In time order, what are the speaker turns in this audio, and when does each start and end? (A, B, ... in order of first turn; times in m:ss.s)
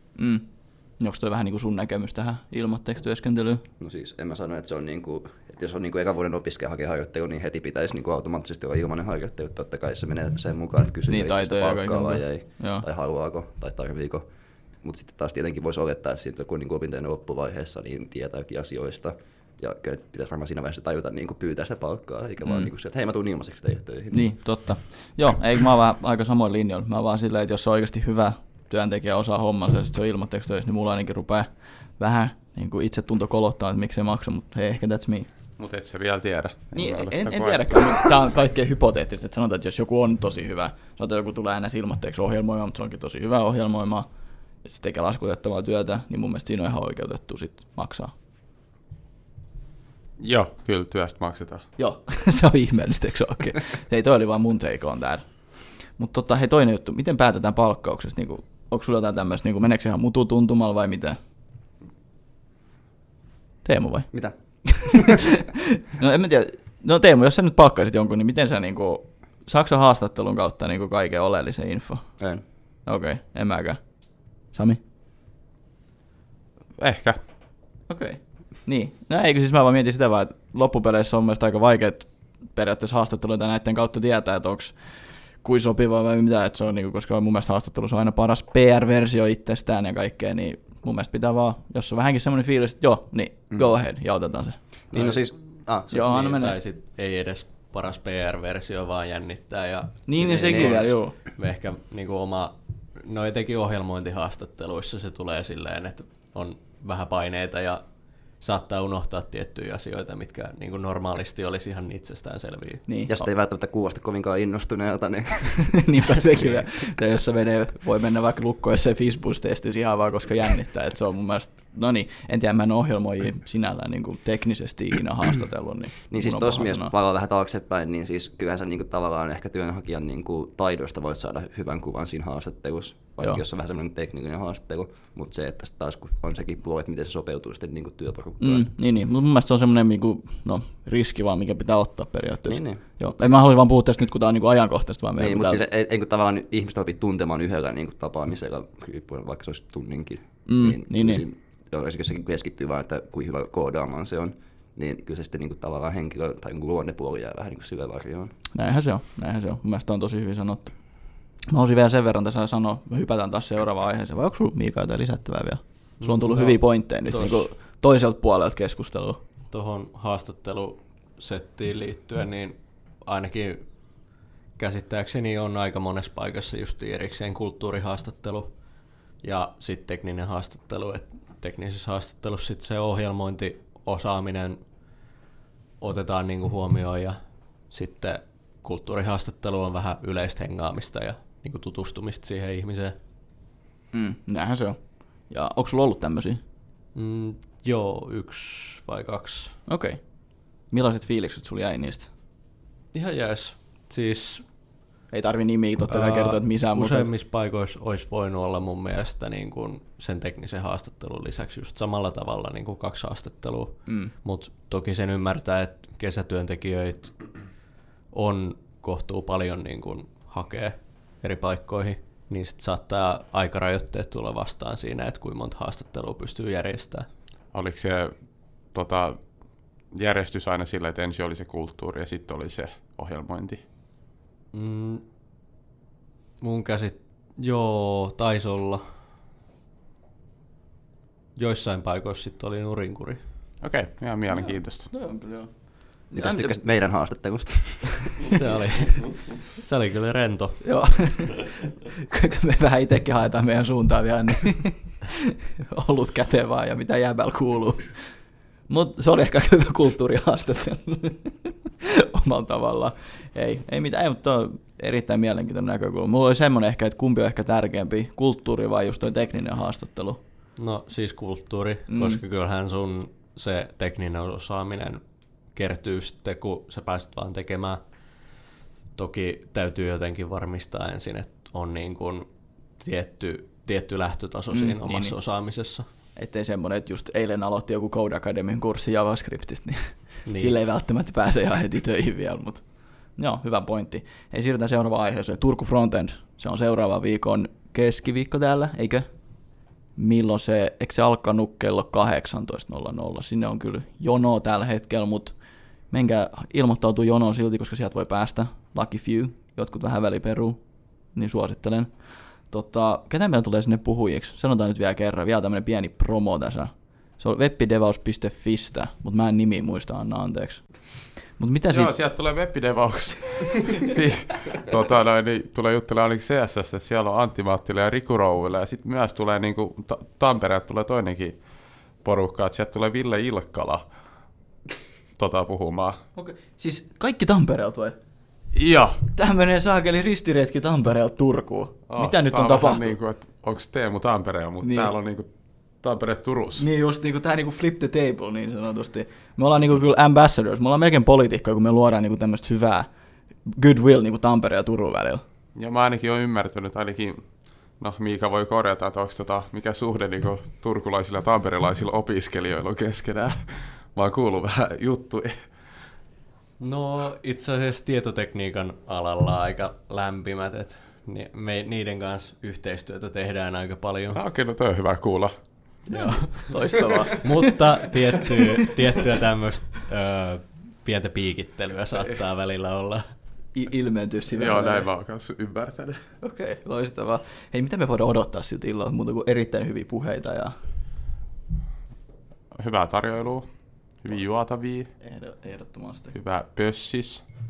0:00.2-0:00.4 A
0:01.0-0:03.6 A
0:03.8-0:14.2 B
0:11.1-0:12.8 A
0:14.8-0:24.4 B
0:22.4-0:22.7 A
0:24.1-0:35.3 A
0:35.6-0:37.7 C
0:36.7-0:44.1 A
0:44.6-0:48.1 A
0:50.2-0:51.6 C
0:51.8-0:55.2 A
0:56.0-1:01.2 A
1:03.6-1:04.1 A
1:04.6-1:12.1 A
1:12.2-1:12.4 B
1:12.8-1:13.8 A
1:14.5-1:14.8 A
1:16.8-1:17.2 C
1:17.9-1:24.7 A
1:25.4-1:34.6 A
1:34.9-1:47.8 D
1:34.9-1:35.9 B
1:35.9-1:36.6 A
1:40.1-1:41.2 A
1:40.3-1:40.8 B
1:48.4-1:52.8 D
1:52.9-1:53.3 A
1:53.1-1:55.7 B
1:55.6-2:06.9 A
2:06.1-2:18.7 B
2:18.4-2:25.6 A
2:22.5-2:23.3 B
2:25.2-2:38.3 B
2:30.4-2:31.2 A
2:38.5-2:40.8 A
2:41.5-2:49.2 A
2:46.0-2:47.5 D
2:49.5-2:53.7 D
2:54.6-2:58.5 D
2:59.2-3:04.6 D
3:05.8-3:07.2 D
3:07.7-3:13.0 D
3:13.9-3:16.4 A
3:16.9-3:19.5 D
3:19.7-3:20.0 A
3:20.7-3:22.1 A
3:22.9-3:24.4 D
3:25.1-3:27.1 A
3:25.9-3:37.2 D
3:33.9-3:34.1 A
3:38.1-3:47.1 D
3:47.5-3:48.1 C
3:48.7-3:49.2 C
3:49.9-3:53.6 C
3:54.5-3:55.0 D
3:56.4-3:58.8 D
4:01.4-4:03.2 D
4:03.6-4:04.9 C
4:04.3-4:05.5 A
4:06.1-4:06.6 A
4:06.1-4:08.3 B
4:08.3-4:10.6 D
4:10.6-4:17.9 A
4:18.7-4:30.2 A
4:30.6-4:35.0 D
4:31.9-4:32.2 A
4:35.5-4:37.8 D
4:38.9-4:42.3 D
4:42.8-4:45.8 D
4:44.5-4:45.2 A
4:46.2-4:59.0 A
4:50.2-4:50.6 D
5:00.0-5:05.4 A
5:05.9-5:10.6 A
5:11.1-5:11.9 A
5:12.5-5:20.6 A
5:21.2-5:21.9 A
5:21.7-5:31.4 C
5:32.0-5:33.8 C
5:35.2-5:36.0 C
5:36.2-5:38.0 A
5:38.5-5:39.0 C
5:39.1-5:43.0 A
5:41.9-5:45.3 C
5:44.6-5:44.9 A
5:45.8-5:46.7 C
5:46.6-5:52.9 A
5:53.4-5:55.2 A
5:55.5-5:57.2 C
5:57.8-6:05.4 C
6:06.6-6:14.2 D
6:14.1-6:15.3 C
6:15.9-6:16.5 D
6:15.9-6:17.5 A
6:17.2-6:23.0 D
6:23.5-6:24.9 A
6:24.4-6:26.0 C
6:26.2-6:30.5 A
6:32.5-6:33.5 C
6:34.0-6:34.9 C
6:35.0-6:36.1 A
6:36.1-6:37.2 C